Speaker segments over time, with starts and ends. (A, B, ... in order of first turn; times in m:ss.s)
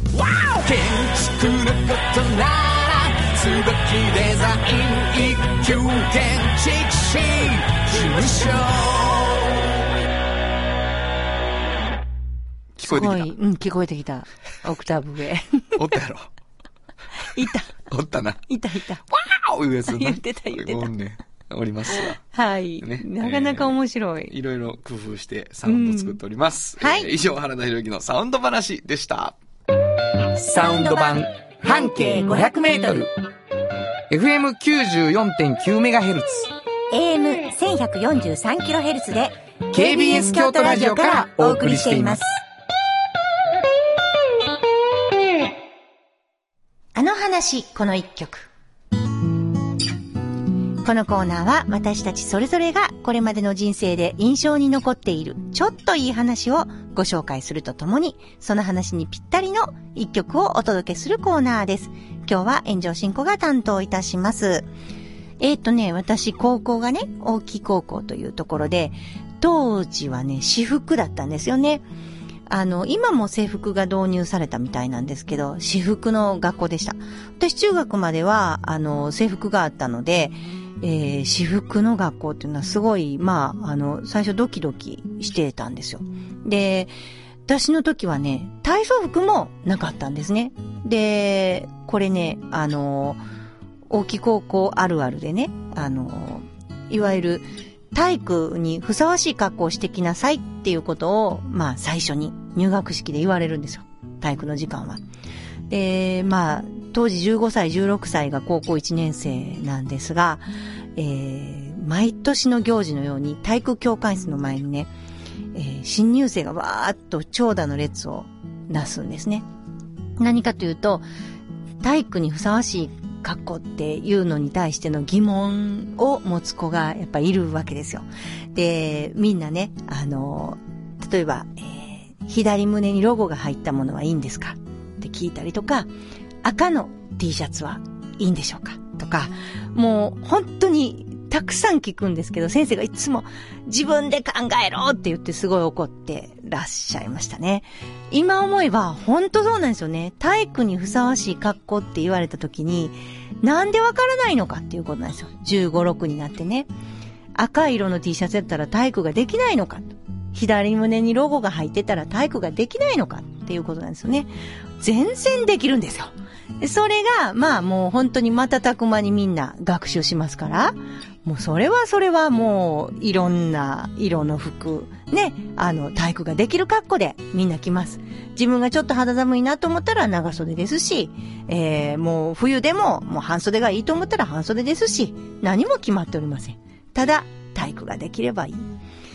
0:00.1-0:09.8 A
0:12.8-0:13.3 B
0:12.8-0:15.8 C
0:15.8-0:16.3 B
0:17.3-0:17.7 C
0:17.8-0:18.4 B
0:18.5-0:19.0 C
0:19.1-0:22.2 B
0:19.9-0:20.9 C
0:22.3-0:24.3 C
0:22.8-0:23.8 B
0:24.3-0:29.4 B
0:25.6-0:26.2 C
0:26.8-0:27.1 C
0:30.3-0:33.1 A
0:30.7-0:31.2 C
0:31.9-0:32.8 C
0:34.1-0:36.5 A
0:36.9-0:42.2 C
0:39.7-0:42.2 A
0:46.9-0:48.5 C
0:50.8-1:04.7 C
1:05.4-1:11.8 C
1:12.5-1:26.9 C
1:27.5-1:33.2 C
1:33.9-1:45.0 C
1:45.7-1:54.9 C
1:55.5-1:59.4 C
2:00.2-2:01.0 C
2:01.8-2:15.9 C
2:16.4-2:36.7 C
2:37.3-3:08.7 C